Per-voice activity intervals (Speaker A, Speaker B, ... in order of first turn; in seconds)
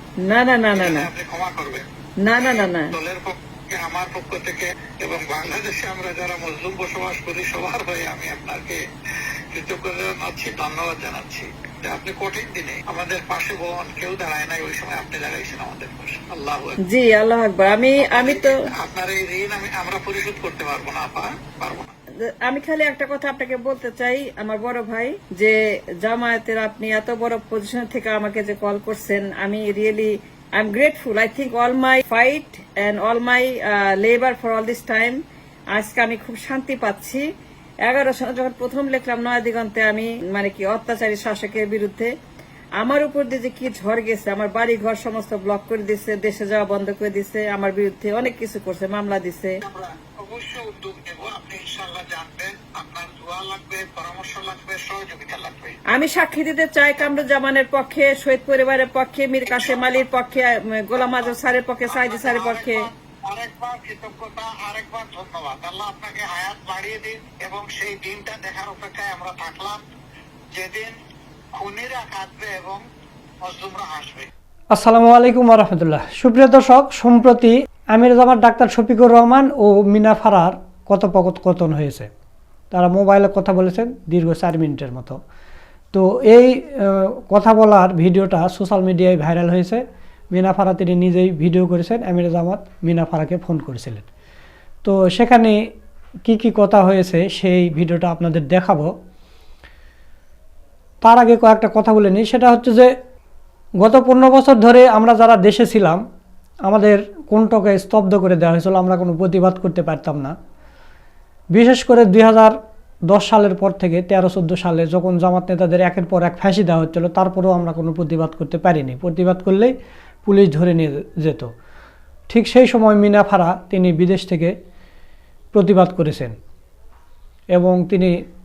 Speaker A: 0.2-1.1, 2.2-2.9, 16.9-18.5, 22.4-35.2, 35.7-37.2, 37.9-42.1, 42.8-49.5, 55.9-62.8
Speaker B: 0.7-8.8, 9.5-16.8, 18.0-21.9, 49.6-55.8, 59.5-60.0, 61.0-61.3, 61.9-69.8, 70.5-70.9, 71.5-72.8, 73.4-74.3
Speaker C: 74.7-82.1, 82.7-85.2, 85.9-94.0, 94.8-95.6, 96.2-98.9, 101.0-102.9, 103.8-106.0, 106.7-110.3, 111.5-112.5, 113.1-119.7, 120.2-121.5, 122.3-124.5, 125.5-126.3, 127.5-128.2